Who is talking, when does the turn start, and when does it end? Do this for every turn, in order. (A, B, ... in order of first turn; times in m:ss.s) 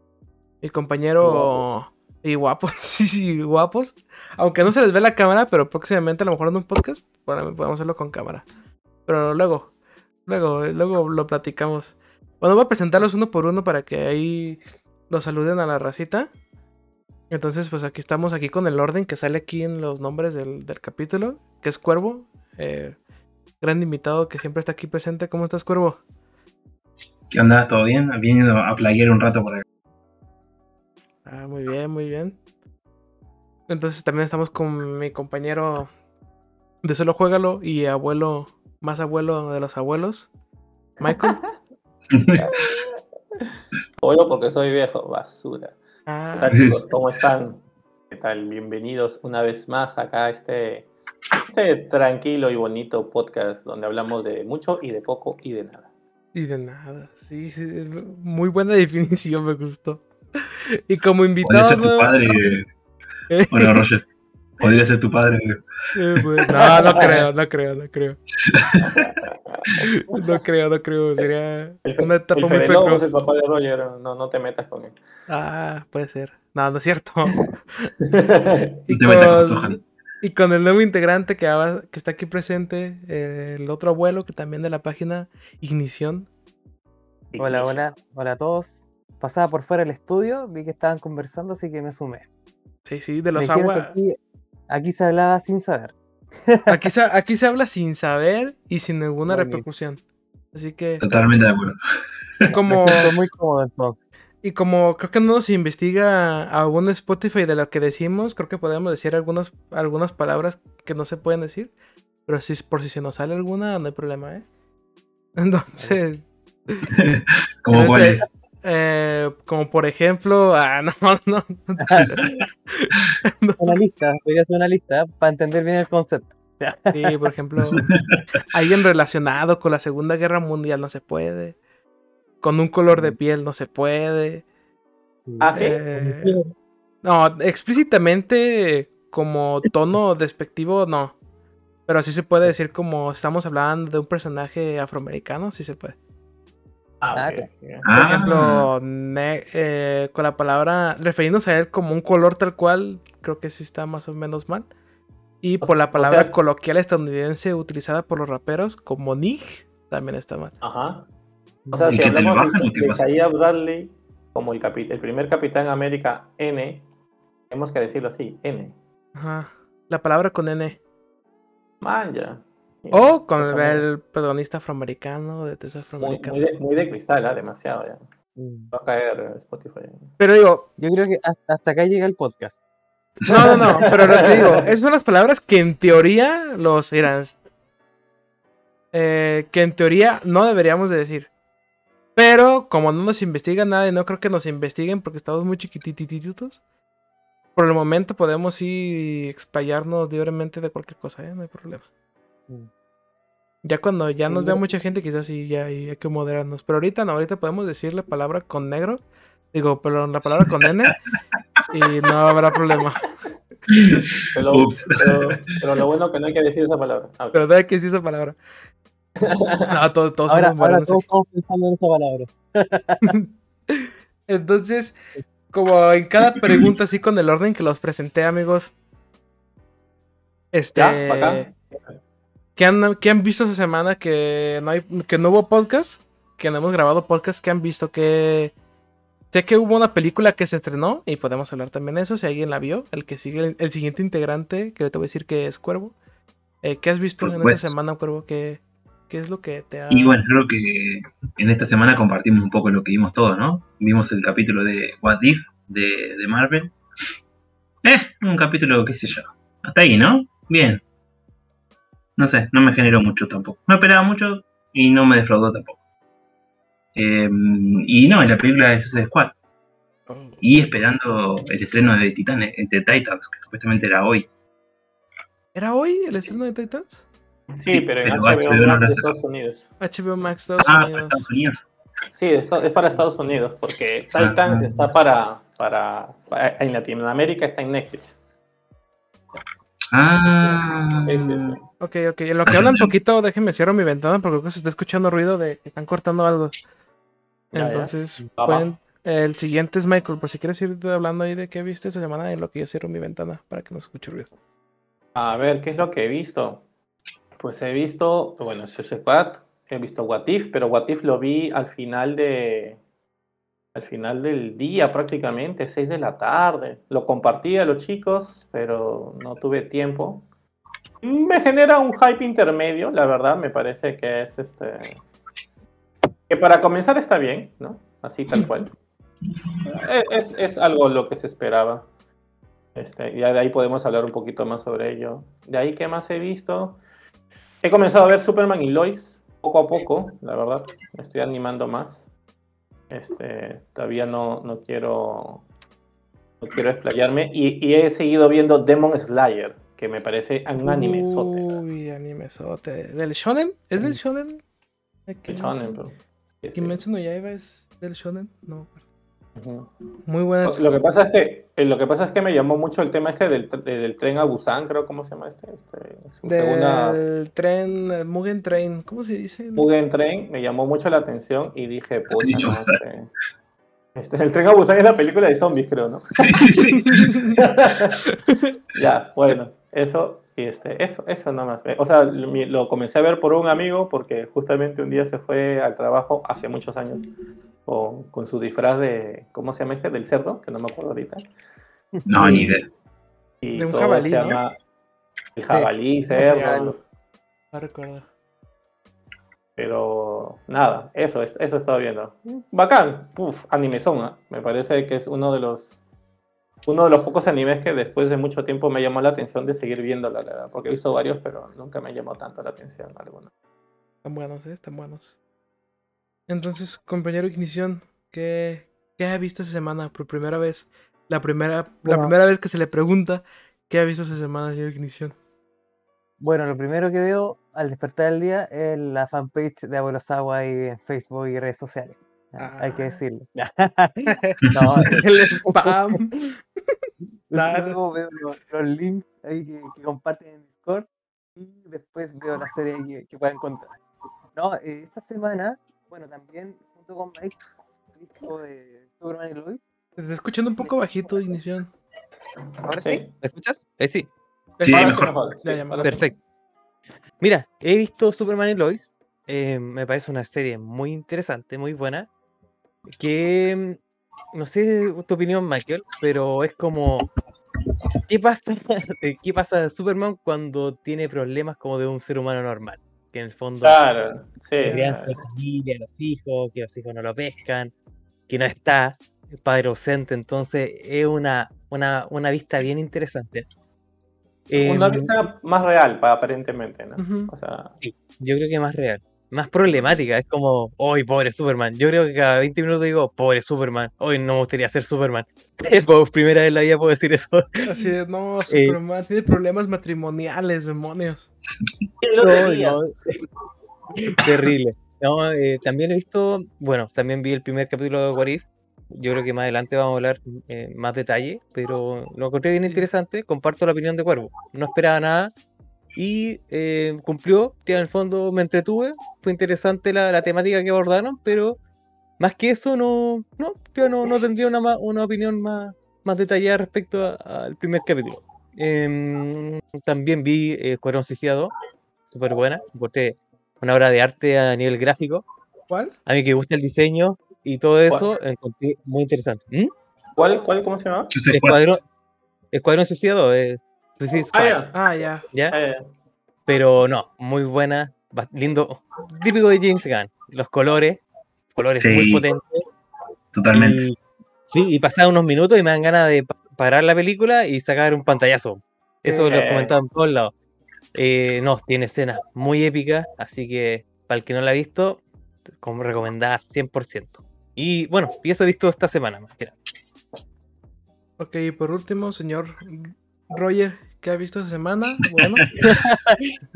0:00.6-0:08.4 A
0:01.2-0:01.6 B
0:09.1-0:09.7 A
0:10.2-0:16.3 A
0:17.3-0:23.0 A
0:23.6-0:26.0 A
0:27.3-0:29.6 C
0:31.2-0:32.4 A
0:33.7-0:35.9 A
0:36.8-0:40.3 A
0:41.0-0:41.4 A
0:41.0-0:41.5 D
0:42.1-0:42.7 C
0:42.4-0:42.8 D
0:44.0-0:45.8 D
0:46.0-0:46.5 A
0:46.3-0:50.9 D
0:46.5-0:46.8 C
0:51.5-0:55.9 D
0:56.3-1:02.1 A
1:01.4-1:02.6 C
1:03.3-1:03.8 A
1:03.5-1:04.0 C
1:04.6-1:05.6 C
1:05.9-1:08.2 A
1:06.5-1:07.2 D
1:08.5-1:09.2 C
1:08.8-1:10.2 D
1:09.8-1:13.1 A
1:11.8-1:14.9 D
1:15.3-1:17.9 A
1:18.1-1:18.6 D
1:18.8-1:26.3 A
1:18.9-1:19.8 C
1:27.3-1:27.8 D
1:27.4-1:32.3 B
1:32.8-1:33.9 A
1:33.3-1:34.2 B
1:34.7-1:36.8 B
1:36.7-1:40.0 A
1:39.3-1:39.6 B
1:40.5-1:41.0 A
1:41.0-1:41.8 C
1:42.4-1:43.1 A
1:42.7-1:44.0 B
1:44.4-1:51.7 A
1:52.3-1:54.4 A
1:55.4-1:56.9 A
1:55.7-1:56.0 B
1:56.9-1:58.3 C
1:57.7-2:03.8 A
2:01.8-2:02.1 B
2:03.6-2:07.1 B
2:06.9-2:07.9 A
2:07.7-2:08.2 C
2:08.5-2:11.6 A
2:12.4-2:14.4 A
2:12.9-2:13.2 B
2:15.3-2:16.5 B
2:15.4-2:15.8 D
2:15.5-2:16.4 A
2:17.0-2:21.2 A
2:21.9-2:26.0 A
2:27.0-2:28.2 D
2:27.1-2:27.5 B
2:27.8-2:28.7 C
2:28.0-2:34.7 A
2:35.4-2:40.5 A
2:35.6-2:36.3 D
2:40.6-2:41.1 D
2:41.6-2:42.0 B
2:41.7-2:46.8 D
2:41.9-2:43.0 C
2:47.5-2:48.7 D
2:49.2-2:50.8 A
2:51.8-2:53.8 D
2:52.9-2:56.4 A
2:56.0-2:58.0 D
2:58.4-2:58.7 B
2:58.7-3:00.1 D
3:00.2-3:00.7 A
3:00.8-3:02.6 B
3:03.3-3:07.4 A
3:03.8-3:04.6 D
3:03.8-3:04.2 B
3:08.9-3:11.3 A
3:12.2-3:16.6 A
3:17.6-3:21.8 A
3:23.6-3:30.9 A
3:24.3-3:24.6 B
3:31.7-3:33.1 A
3:33.7-3:35.4 C
3:34.3-3:37.4 D
3:37.3-3:38.4 A
3:39.2-3:39.7 D
3:39.7-3:41.0 A
3:40.3-3:43.1 B
3:43.0-3:45.0 A
3:45.5-3:48.7 A
3:50.5-3:51.5 A
3:50.7-3:51.9 D
3:52.6-3:58.5 A
3:59.3-4:05.9 A
4:06.6-4:10.2 A
4:07.2-4:07.7 C
4:09.9-4:16.7 C
4:17.8-4:20.8 C
4:22.2-4:25.8 C
4:26.9-4:29.3 C
4:30.1-4:30.4 A
4:30.4-4:34.3 C
4:35.5-4:37.0 A
4:37.6-4:39.6 D
4:37.7-4:39.1 C
4:39.8-4:41.2 A
4:40.6-4:41.6 C
4:42.2-4:48.1 D
4:44.2-4:44.8 C
4:49.9-4:51.6 C
4:50.3-4:51.6 D
4:51.8-4:56.5 A
4:52.4-4:52.9 C
4:57.5-4:58.6 D
4:57.5-5:04.3 A
5:05.1-5:06.6 D
5:07.4-5:12.8 D
5:13.7-5:20.2 D
5:21.0-5:25.0 D
5:26.3-5:28.7 D
5:29.6-5:31.8 D
5:32.7-5:36.8 D
5:37.6-5:42.0 D
5:42.9-5:45.4 D
5:46.4-5:51.6 D
5:50.6-5:54.4 A
5:55.1-5:55.8 A
5:55.3-5:56.8 D
5:56.5-5:58.7 A
5:59.4-5:59.7 D
6:00.0-6:00.7 A
6:00.4-6:07.0 D
6:06.2-6:09.6 A
6:09.6-6:13.1 D
6:12.2-6:12.8 C
6:14.0-6:16.6 D
6:16.2-6:17.1 C
6:16.8-6:17.4 A
6:17.3-6:18.0 D
6:18.0-6:18.5 A
6:18.7-6:27.1 D
6:27.6-6:31.2 D
6:31.9-6:32.5 B
6:32.0-6:32.6 C
6:32.2-6:32.5 D
6:33.4-6:34.5 D
6:33.6-6:34.4 A
6:35.4-6:36.8 D
6:35.5-6:36.7 B
6:36.1-6:36.8 A
6:37.5-6:38.0 A
6:39.6-6:45.8 D
6:46.6-6:53.3 D
6:54.0-6:55.1 A
6:56.3-7:05.1 A
7:01.8-7:02.1 B
7:06.2-7:15.7 B
7:12.4-7:12.9 A
7:14.0-7:16.4 A
7:17.3-7:23.7 B
7:17.3-7:17.8 A
7:24.3-7:27.4 B
7:28.0-7:29.6 B
7:30.0-7:31.7 A
7:32.7-7:33.1 D
7:32.7-7:34.1 B
7:34.6-7:36.0 A
7:34.6-7:35.1 C
7:34.7-7:36.0 D
7:35.8-7:36.2 B
7:37.2-7:42.1 B
7:42.9-7:43.8 B
7:44.3-7:47.1 B
7:48.1-7:53.8 B
7:53.6-7:55.2 D
7:54.6-7:57.7 B
7:58.3-8:03.5 B
8:04.5-8:05.1 B
8:04.6-8:07.7 D
8:07.0-8:07.3 A
8:07.8-8:17.8 B
8:17.6-8:21.3 A
8:18.5-8:18.8 B
8:22.0-8:22.8 D
8:22.2-8:22.9 B
8:24.1-8:35.3 B
8:35.9-8:41.6 B
8:42.2-8:51.5 B
8:52.1-8:55.2 B
8:55.7-8:55.9 A
8:56.0-8:59.7 B
9:00.2-9:01.1 D
9:01.1-9:01.6 C
9:01.3-9:01.8 B
9:02.5-9:04.6 B
9:04.3-9:04.8 D
9:04.7-9:05.2 A
9:05.5-9:05.8 D
9:06.5-9:11.0 B
9:11.5-9:12.6 B
9:11.8-9:12.2 C
9:13.3-9:13.8 C
9:13.5-9:20.3 B
9:19.0-9:19.7 D
9:20.9-9:29.6 B
9:31.2-9:35.5 A
9:35.6-9:36.3 B